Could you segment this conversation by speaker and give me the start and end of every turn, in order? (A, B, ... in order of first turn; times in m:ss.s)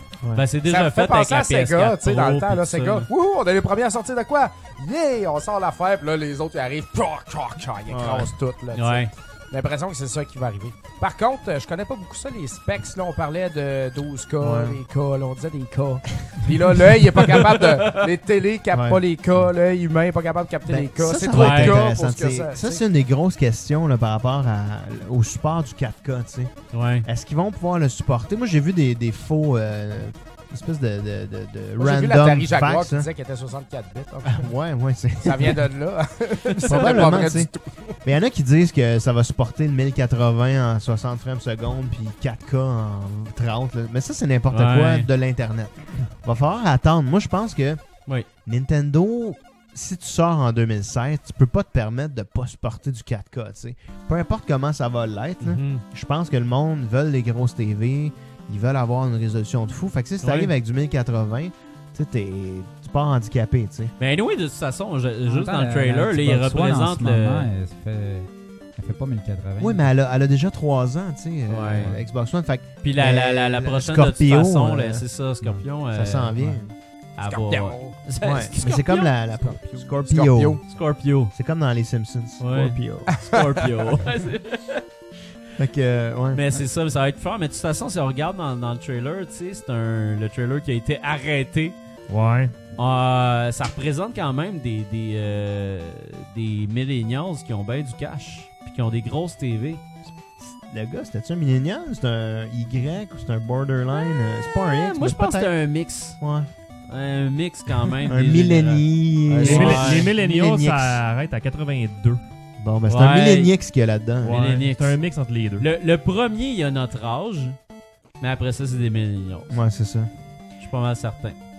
0:00.4-0:03.1 A
0:00.6-0:22.8 B
0:07.9-0:08.3 C
0:08.7-0:09.1 A
0:14.4-0:14.8 C
0:17.3-0:17.6 A
0:18.7-0:19.5 C
0:20.7-0:26.5 C
0:21.3-0:21.8 A
0:26.7-0:27.1 A
0:27.0-0:33.1 C
0:31.8-0:34.5 B
0:34.2-0:35.6 C
0:35.2-0:37.9 B
0:36.6-0:37.5 C
0:36.7-0:37.0 A
0:38.0-0:47.8 C
0:44.5-0:45.1 A
0:48.5-1:03.9 C
0:55.4-0:55.8 A
1:00.2-1:00.5 A
1:04.0-1:07.5 A
1:05.3-1:09.9 D
1:09.6-1:16.7 C
1:11.5-1:12.0 A
1:12.8-1:16.4 A
1:17.2-1:19.2 A
1:17.2-1:18.0 B
1:18.2-1:20.6 C
1:20.1-1:20.6 B
1:20.7-1:21.3 A
1:21.3-1:23.1 C
1:22.4-1:24.8 A
1:25.6-1:26.4 C
1:26.3-1:31.8 A
1:32.1-1:32.5 E
1:32.8-1:39.8 A
1:40.2-1:45.5 C
1:44.7-1:46.2 A
1:46.2-1:46.5 C
1:46.9-1:48.8 A
1:48.1-1:51.0 C
1:49.3-1:52.2 E
1:49.4-1:50.1 A
1:52.6-1:54.4 C
1:52.9-1:53.5 A
1:54.2-1:55.7 E
1:54.3-1:55.0 A
1:55.6-1:57.6 A
1:58.2-1:59.6 A
1:59.5-2:00.1 C
2:00.6-2:01.4 A